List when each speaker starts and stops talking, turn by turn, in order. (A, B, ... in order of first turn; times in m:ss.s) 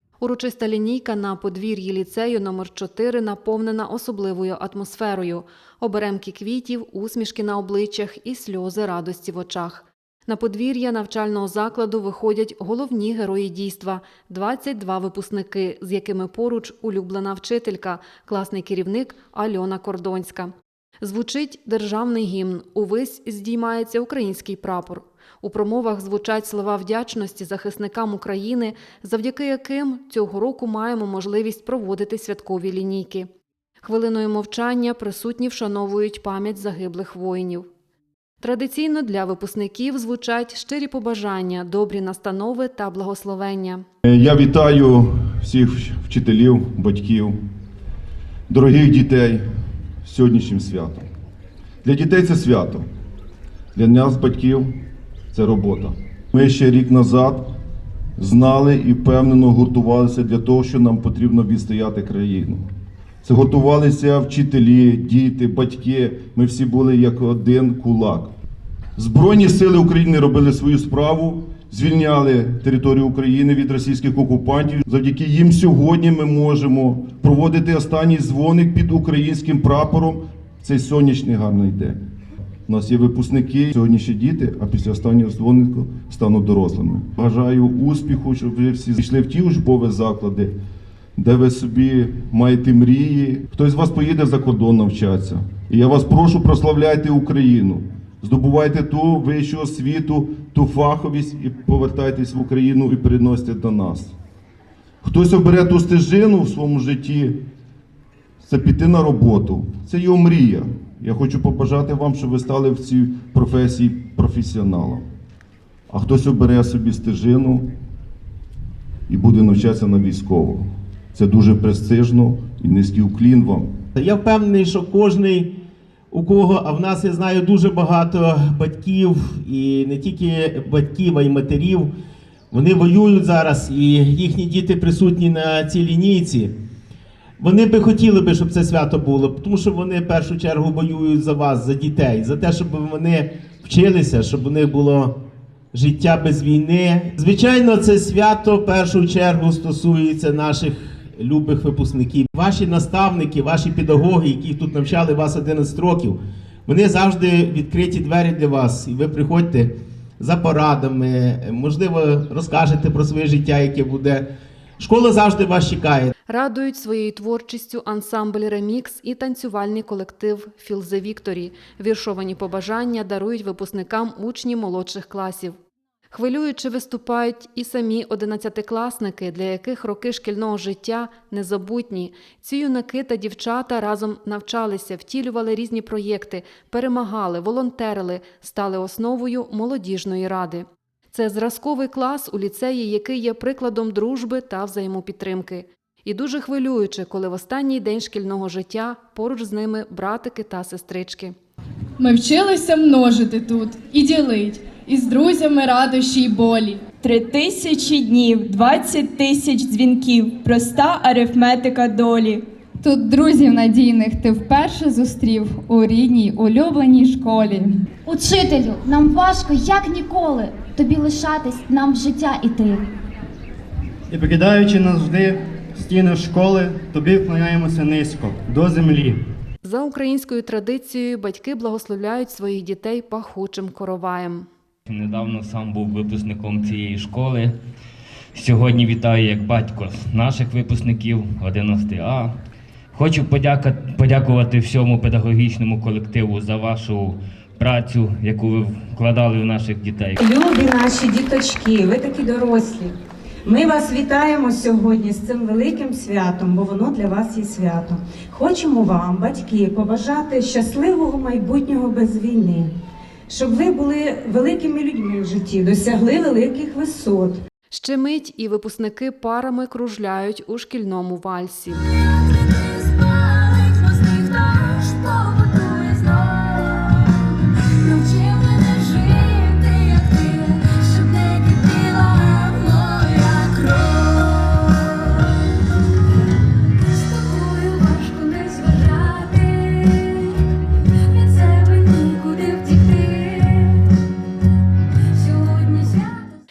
0:00.2-0:33.3 A
0:33.8-0:37.7 A
0:38.4-0:43.8 A
0:44.0-0:47.4 B
0:48.5-0:49.4 B
0:50.0-0:51.1 B
0:51.8-0:52.9 B
0:53.8-0:54.7 B
0:55.3-0:57.4 B
0:58.2-1:02.6 B
1:03.2-1:08.3 B
1:09.0-1:22.0 B
1:22.7-1:30.5 B
1:31.2-1:44.1 B
1:45.0-1:47.4 B
1:48.4-1:55.0 B
1:55.9-1:57.6 B
1:59.1-2:00.6 B
2:01.2-2:03.7 B
2:04.0-2:05.5 C
2:06.1-2:11.9 C
2:12.5-2:16.5 C
2:17.4-2:25.2 C
2:25.7-2:44.2 C
2:44.8-2:46.1 C
2:46.3-2:55.6 A
2:56.1-3:21.4 A
3:22.0-3:26.9 D
3:27.0-3:32.4 E
3:32.8-3:37.7 F
3:38.1-3:42.9 G
3:44.1-3:49.2 H
3:49.6-3:54.5 A
3:54.9-3:57.5 I
3:58.3-4:02.3 I
4:03.0-4:10.2 I
4:10.2-4:12.9 J
4:13.4-4:22.7 J
4:23.3-4:27.4 J
4:27.7-4:31.9 A
4:32.2-4:37.0 G
4:38.0-4:42.2 G
4:42.4-4:42.8 J
4:42.9-4:43.3 G
4:43.5-4:44.2 J
4:47.0-4:50.1 J
4:48.3-4:49.0 G
4:51.1-4:53.7 J
4:55.2-4:56.2 J